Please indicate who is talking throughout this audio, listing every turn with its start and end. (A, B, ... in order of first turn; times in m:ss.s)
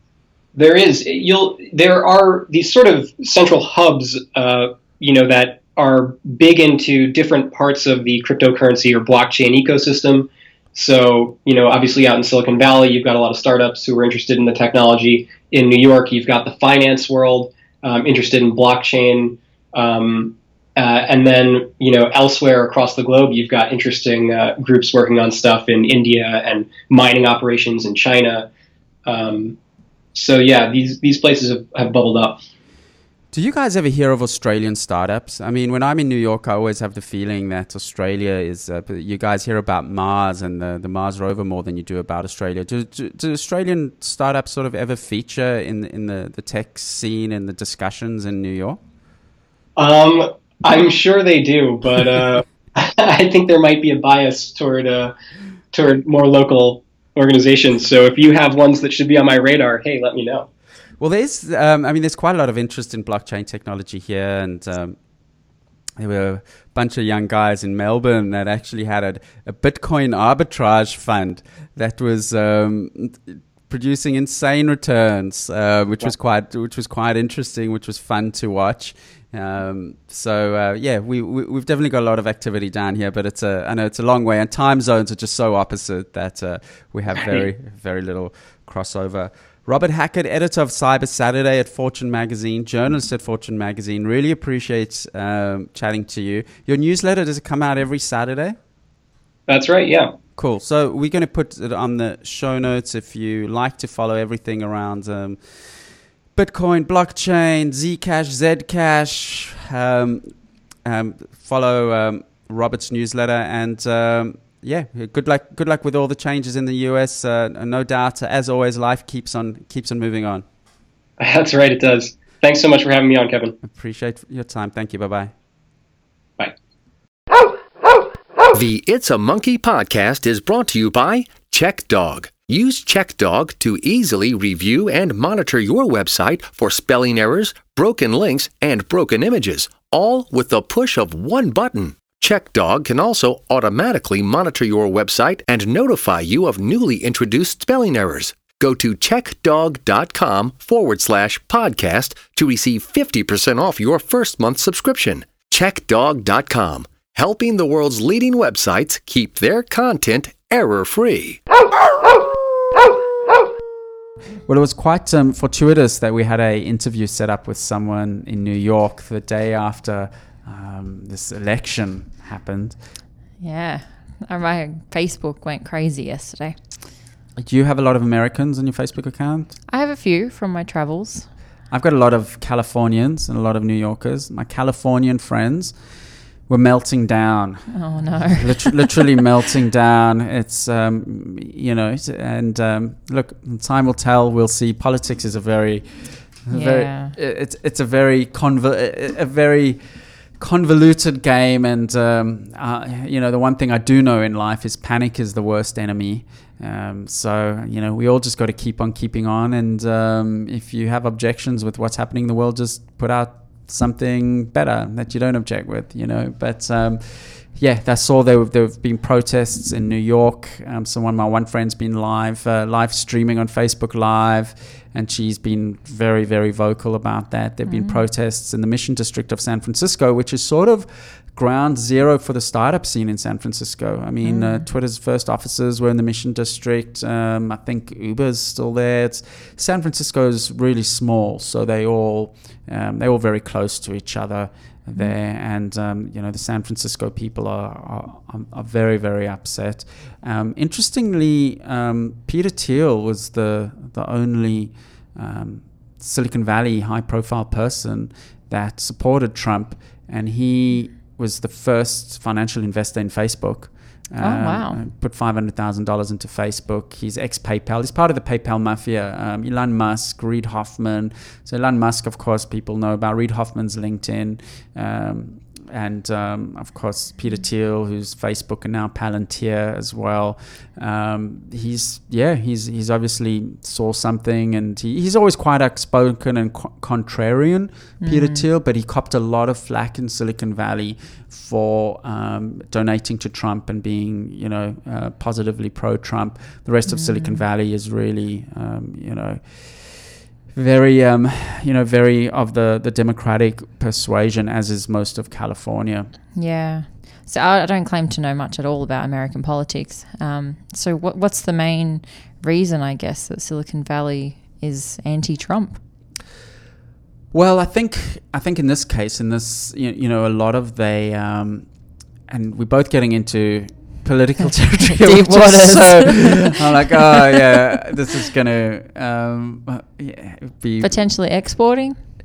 0:00.5-0:28.5 A
0:29.0-0:29.6 A
0:30.1-0:32.4 A
0:33.3-0:48.8 B
0:49.8-0:55.1 A
0:55.7-1:00.5 A
1:01.0-1:05.0 B
1:06.0-1:38.6 B
1:39.5-1:40.1 A
1:40.4-1:45.6 B
1:46.3-1:50.3 B
1:50.8-2:00.4 B
2:01.2-2:03.6 A
2:03.6-2:05.3 B
2:08.5-2:41.4 C
2:44.5-2:52.8 B
2:53.4-2:56.6 D
2:57.4-2:59.6 B
2:59.7-3:01.3 D
3:01.7-3:05.7 B
3:06.5-3:19.8 B
3:07.7-3:08.8 D
3:16.5-3:17.1 D
3:20.4-5:06.1 B
3:47.6-3:48.0 D
3:54.2-3:54.7 D
4:24.2-4:24.8 D
4:48.0-4:48.4 D
4:56.9-4:57.4 D
5:06.3-5:15.8 D
5:17.3-5:21.7 B
5:22.3-5:31.0 B
5:25.0-5:27.4 D
5:30.8-5:32.0 D